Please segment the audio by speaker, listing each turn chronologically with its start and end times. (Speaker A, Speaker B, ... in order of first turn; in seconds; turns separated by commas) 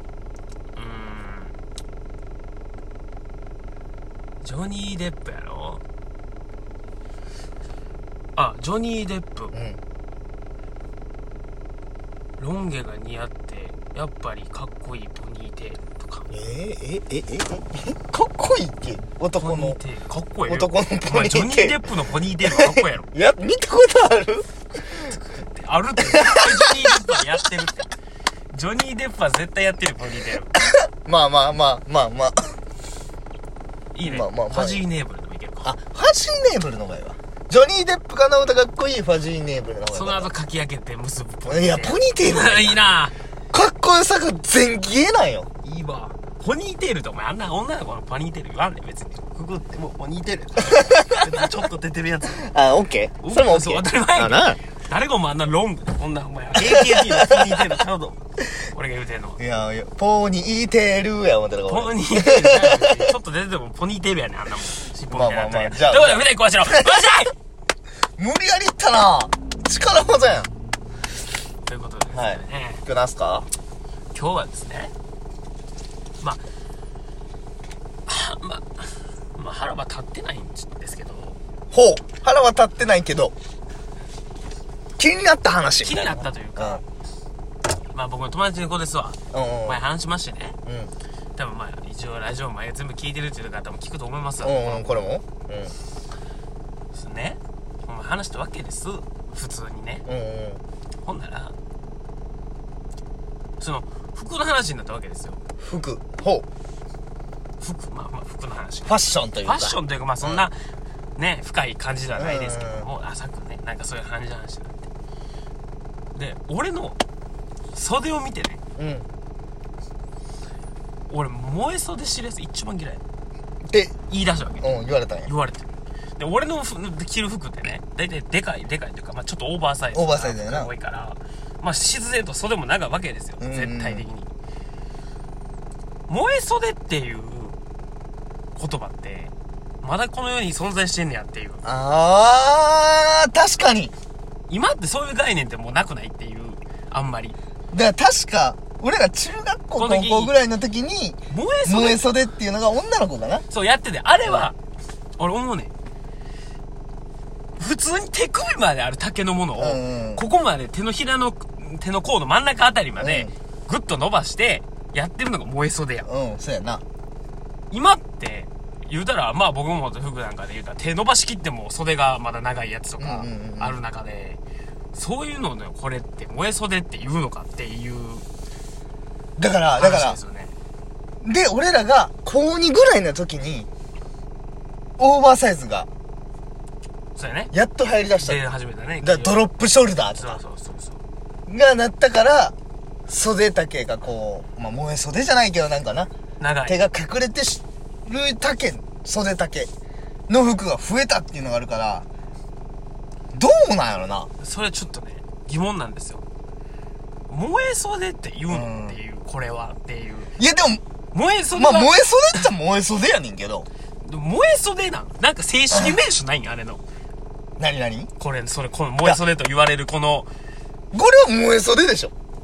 Speaker A: 0.8-1.5, Speaker A: 4.4-5.8, Speaker A: 8.4-9.5, Speaker B: 9.5-9.8, Speaker A: 12.4-16.3, Speaker B: 16.3-19.8, Speaker A: 19.4-23.1, Speaker B: 20.5-21.8, Speaker B: 22.4-24.4, Speaker A: 25.0-27.9, Speaker B: 26.0-27.6, Speaker A: 28.5-30.5, Speaker B: 30.8-32.6, Speaker A: 33.9-35.7, Speaker B: 34.0-34.8, Speaker B: 35.6-40.3, Speaker A: 39.9-43.1, Speaker B: 41.5-42.8, Speaker B: 43.5-45.5, Speaker A: 45.6-52.5, Speaker B: 50.7-51.3, Speaker B: 52.3-54.6, Speaker A: 53.2-59.4, Speaker B: 56.5-57.8, Speaker B: 59.4-63.1, Speaker A: 61.7-67.3, Speaker B: 65.1-67.1, Speaker B: 68.2-70.5, Speaker A: 71.7-72.8, Speaker B: 72.1-73.5, Speaker A: 74.1-74.9, Speaker A: 78.1-81.4, Speaker B: 81.7-83.3, Speaker B: 85.0-86.8, Speaker A: 85.8-86.9, Speaker A: 87.9-90.6, Speaker B: 89.3-89.8, Speaker B: 90.7-90.9, Speaker A: 91.4-95.0, Speaker B: 94.4-95.8, Speaker A: 96.9-100.1, Speaker B: 100.1-100.6, Speaker A: 101.0-101.5, Speaker A: 103.6-105.4, Speaker B: 105.6-106.5, Speaker A: 107.6-114.9, Speaker B: 108.9-110.5, Speaker B: 112.2-112.9, Speaker A: 116.2-117.0, Speaker A: 117.7-118.6, Speaker B: 118.8-119.1, Speaker A: 121.1-123.0, Speaker B: 123.7-124.0, Speaker A: 124.1-124.7, Speaker B: 124.6-125.3, Speaker A: 125.3-134.3, Speaker B: 129.9-130.7, Speaker B: 133.4-134.1, Speaker A: 136.1-137.6, Speaker A: 138.6-141.6, Speaker B: 141.7-143.9, Speaker A: 144.5-147.4, Speaker B: 147.7-153.4, Speaker A: 149.8-150.3, Speaker A: 151.3-152.1, Speaker A: 153.5-154.6, Speaker B: 154.2-154.5, Speaker A: 155.2-155.7, Speaker A: 157.6-166.1, Speaker B: 159.6-160.2, Speaker B: 163.0-163.3, Speaker B: 166.1-166.8, Speaker A: 167.7-174.4, Speaker B: 173.0-173.8, Speaker A: 174.9-178.2, Speaker B: 179.4-180.2, Speaker A: 179.8-180.5, Speaker B: 181.2-183.7, Speaker B: 185.0-185.9, Speaker A: 187.2-187.5, Speaker B: 187.5-188.4, Speaker A: 188.2-189.5, Speaker B: 189.0-190.4, Speaker A: 190.1-191.0, Speaker B: 191.5-192.6, Speaker B: 193.1-196.1, Speaker A: 196.4-196.8, Speaker B: 196.7-199.7, Speaker B: 200.3-202.1, Speaker B: 203.3-204.3, Speaker A: 204.4-206.2, Speaker A: 207.3-210.3, Speaker B: 208.5-209.0, Speaker B: 210.4-210.8, Speaker A: 211.1-212.5, Speaker B: 211.5-213.7, Speaker A: 214.0-216.8, Speaker B: 217.6-218.1, Speaker A: 218.2-220.3, Speaker B: 220.9-222.1